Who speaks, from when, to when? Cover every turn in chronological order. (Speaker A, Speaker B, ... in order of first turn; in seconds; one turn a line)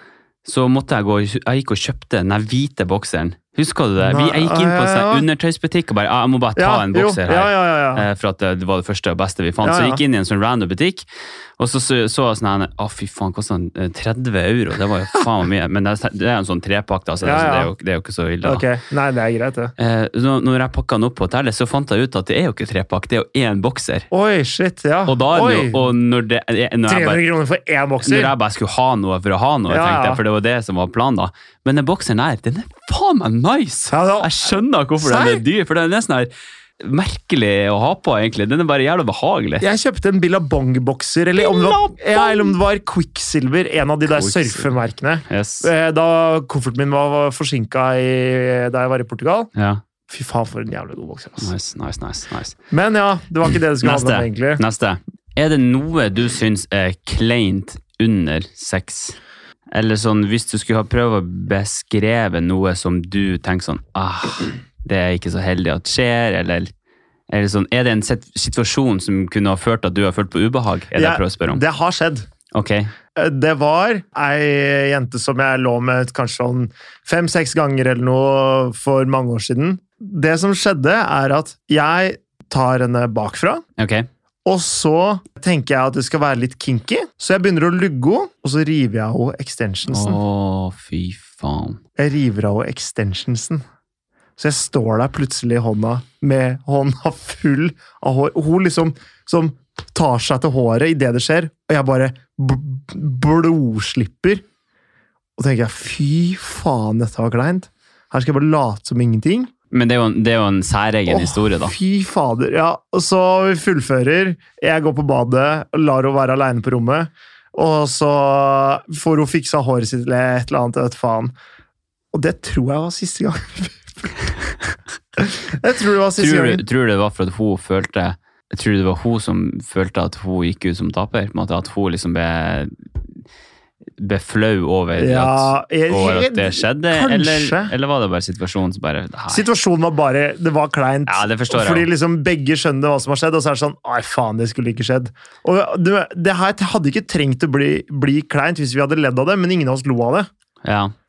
Speaker A: 0.4-11.1
Speaker B: 4.0-5.2
Speaker B: 6.5-8.1
Speaker B: 9.6-10.0
Speaker A: 11.6-18.6
Speaker B: 17.2-17.7
Speaker B: 18.4-19.7
Speaker A: 19.8-24.1
Speaker B: 24.1-25.8
Speaker A: 25.1-27.2
Speaker B: 26.9-28.3
Speaker A: 28.0-39.6
Speaker B: 29.7-30.2
Speaker B: 33.9-35.4
Speaker B: 39.6-49.5
Speaker A: 41.4-42.5
Speaker A: 44.1-44.7
Speaker A: 45.3-45.7
Speaker A: 49.5-49.8
Speaker B: 50.1-51.5
Speaker A: 51.4-52.5
Speaker B: 52.7-54.6
Speaker A: 53.8-59.2
Speaker A: 59.7-66.7
Speaker A: 67.3-71.6
Speaker B: 70.9-72.3
Speaker A: 72.5-72.9
Speaker B: 73.1-83.6
Speaker A: 83.8-84.1
Speaker B: 84.4-90.2
Speaker A: 89.9-91.8
Speaker B: 92.0-93.6
Speaker B: 94.4-104.4
Speaker B: 105.4-109.5
Speaker A: 109.7-111.7
Speaker B: 111.1-121.3
Speaker B: 122.1-124.1
Speaker B: 125.2-126.6
Speaker A: 126.2-132.7
Speaker A: 134.0-139.4
Speaker B: 135.0-137.7
Speaker B: 139.3-150.3
Speaker A: 141.1-141.9
Speaker A: 150.6-150.9